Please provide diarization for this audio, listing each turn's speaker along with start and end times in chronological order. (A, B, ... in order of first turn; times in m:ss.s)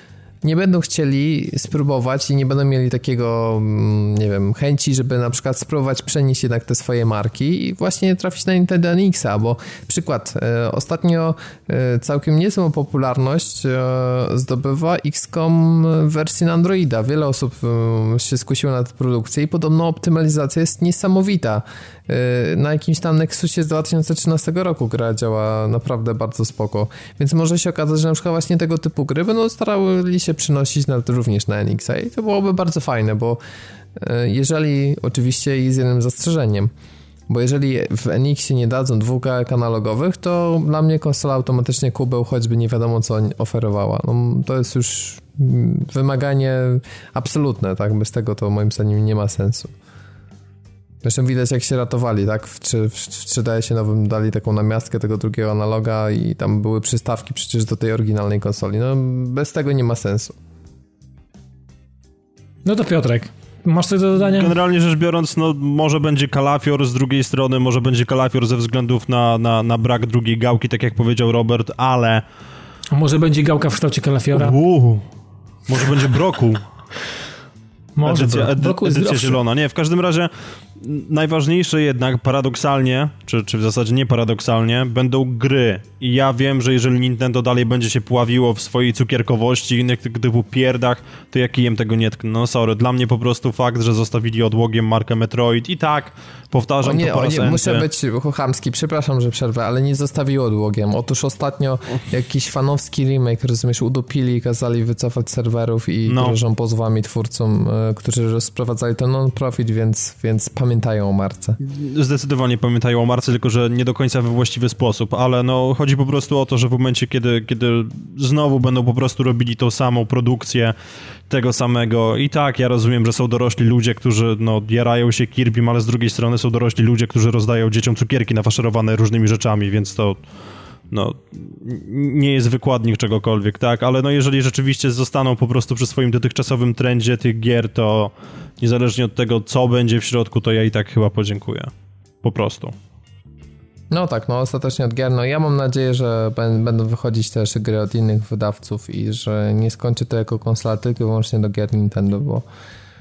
0:00.4-0:33.4 A
0:34.0-0:36.7 A
0:37.3-0:49.7 A
0:51.0-1:00.4 A
1:02.6-1:04.5 B
1:04.2-1:12.2 C
1:12.9-1:14.6 B
1:14.3-1:15.0 C
1:15.7-1:16.6 C
1:18.0-1:19.4 B
1:18.0-1:37.8 C
1:36.8-1:51.6 A
1:46.1-1:46.4 C
1:51.6-2:00.8 C
2:01.3-2:10.2 C
2:10.9-2:21.7 C
2:22.2-2:22.7 C
2:23.9-2:32.5 A